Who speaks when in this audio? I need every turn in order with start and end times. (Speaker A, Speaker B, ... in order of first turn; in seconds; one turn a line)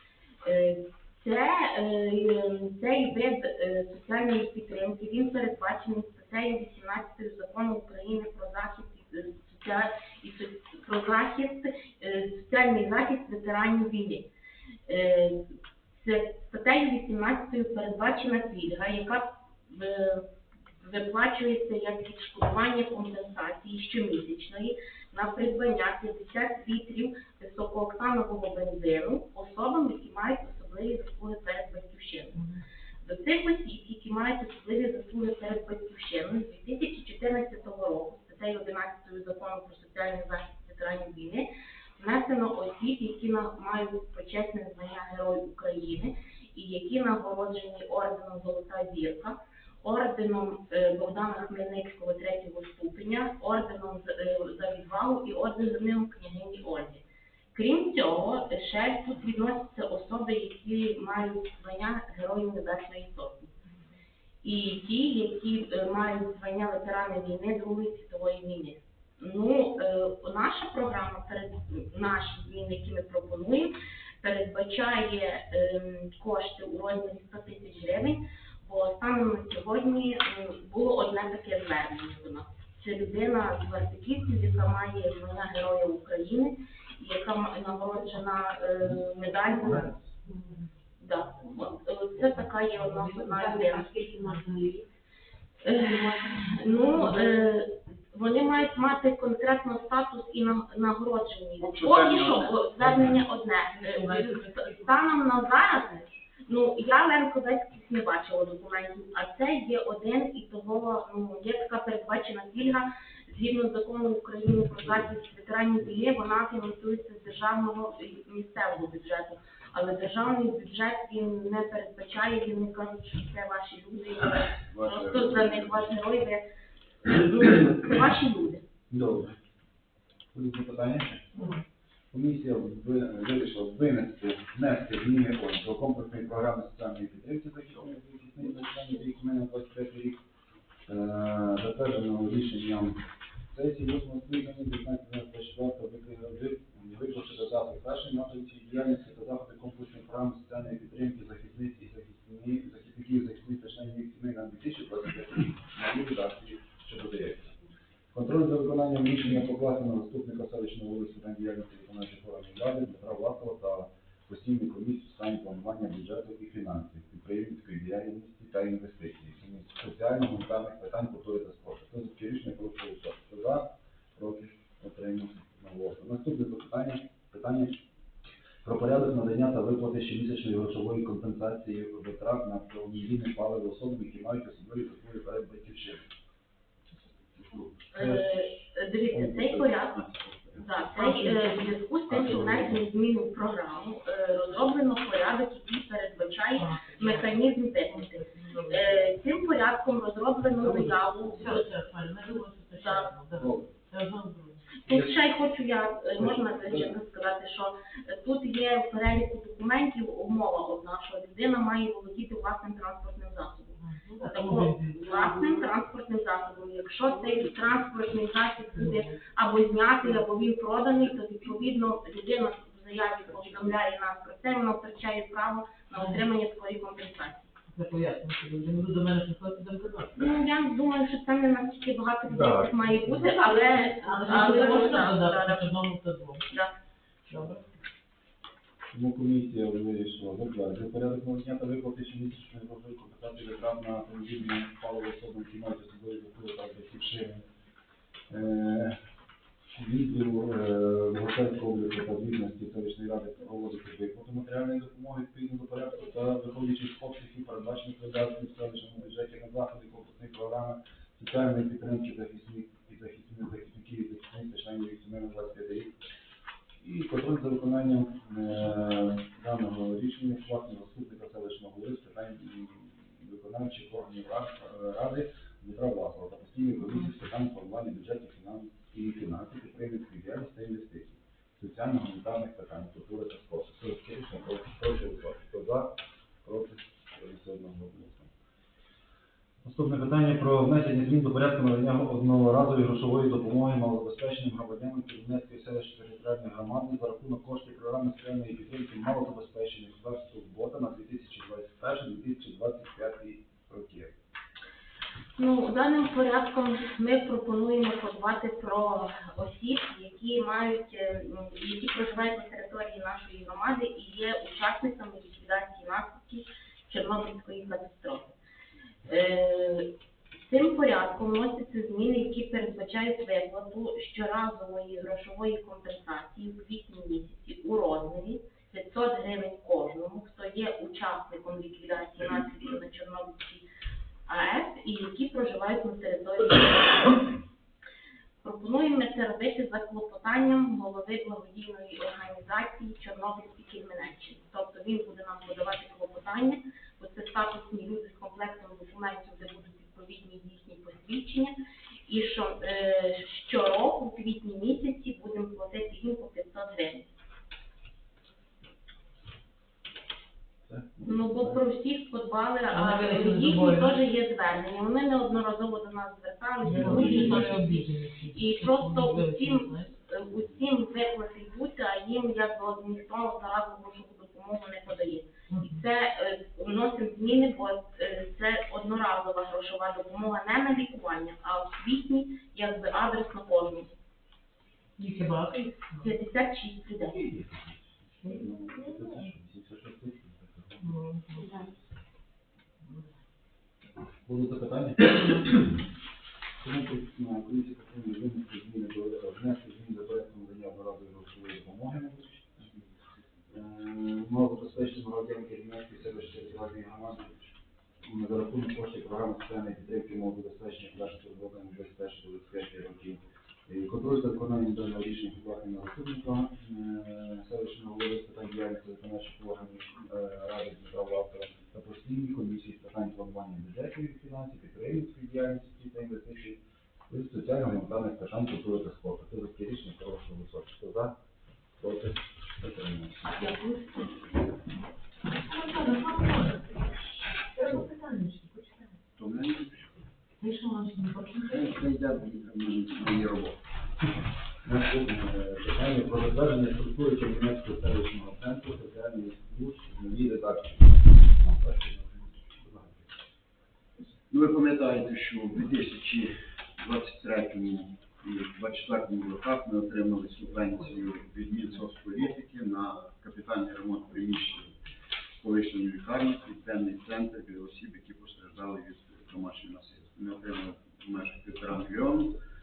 Speaker A: 0.4-14.3
Speaker A: 14.9-20.3
Speaker A: 20.8-32.4
Speaker B: 32.3-32.6
Speaker A: 33.0-57.0
Speaker A: 57.5-63.5
Speaker A: 64.4-89.9
Speaker B: 90.2-90.6
Speaker A: 91.0-93.9
Speaker B: 92.8-94.8
Speaker A: 95.6-126.4
Speaker C: 101.6-103.2
Speaker B: 103.7-105.1
Speaker C: 124.7-125.9
Speaker A: 127.0-128.6
Speaker D: 128.9-129.4
Speaker D: 130.3-131.4
Speaker D: 132.1-140.2
Speaker D: 140.9-157.6
Speaker D: 158.1-177.8
Speaker D: 178.6-186.0
Speaker C: 187.4-187.8
Speaker D: 187.9-188.4
Speaker A: 187.9-190.0
Speaker D: 189.1-190.6
Speaker A: 190.6-201.6
Speaker B: 190.9-191.7
Speaker D: 192.1-192.8
Speaker B: 196.6-199.1
Speaker D: 200.5-201.6
Speaker B: 201.3-204.7
Speaker A: 202.8-203.1
Speaker D: 203.4-203.7
Speaker A: 204.8-227.5
Speaker D: 204.9-205.2
Speaker D: 206.2-207.0
Speaker B: 213.8-215.6
Speaker B: 218.8-219.2
Speaker B: 225.9-226.2
Speaker B: 227.7-230.2
Speaker A: 230.2-235.8
Speaker D: 232.3-232.8
Speaker B: 233.0-236.4
Speaker B: 237.3-237.7
Speaker D: 238.9-247.4
Speaker D: 248.3-249.0
Speaker D: 249.7-265.9
Speaker D: 266.8-288.3
Speaker D: 289.6-304.1
Speaker A: 305.4-318.4
Speaker A: 319.1-333.6
Speaker A: 334.3-337.4
Speaker A: 338.4-351.5
Speaker A: 352.1-357.1
Speaker D: 360.6-361.6
Speaker A: 361.1-383.9
Speaker B: 362.7-364.0
Speaker B: 366.6-369.9
Speaker D: 366.6-367.5
Speaker B: 375.5-375.8
Speaker B: 385.0-386.1
Speaker A: 386.0-387.2
Speaker D: 387.1-390.9
Speaker B: 390.8-391.6
Speaker D: 394.1-395.8
Speaker D: 396.6-402.7
Speaker D: 403.5-431.1
Speaker D: 431.8-433.5
Speaker B: 433.4-434.1
Speaker B: 435.4-436.9
Speaker B: 437.4-438.9
Speaker C: 439.1-440.1
Speaker B: 440.4-441.8
Speaker C: 441.4-443.6
Speaker D: 444.6-453.1
Speaker C: 454.3-464.7
Speaker C: 465.4-472.4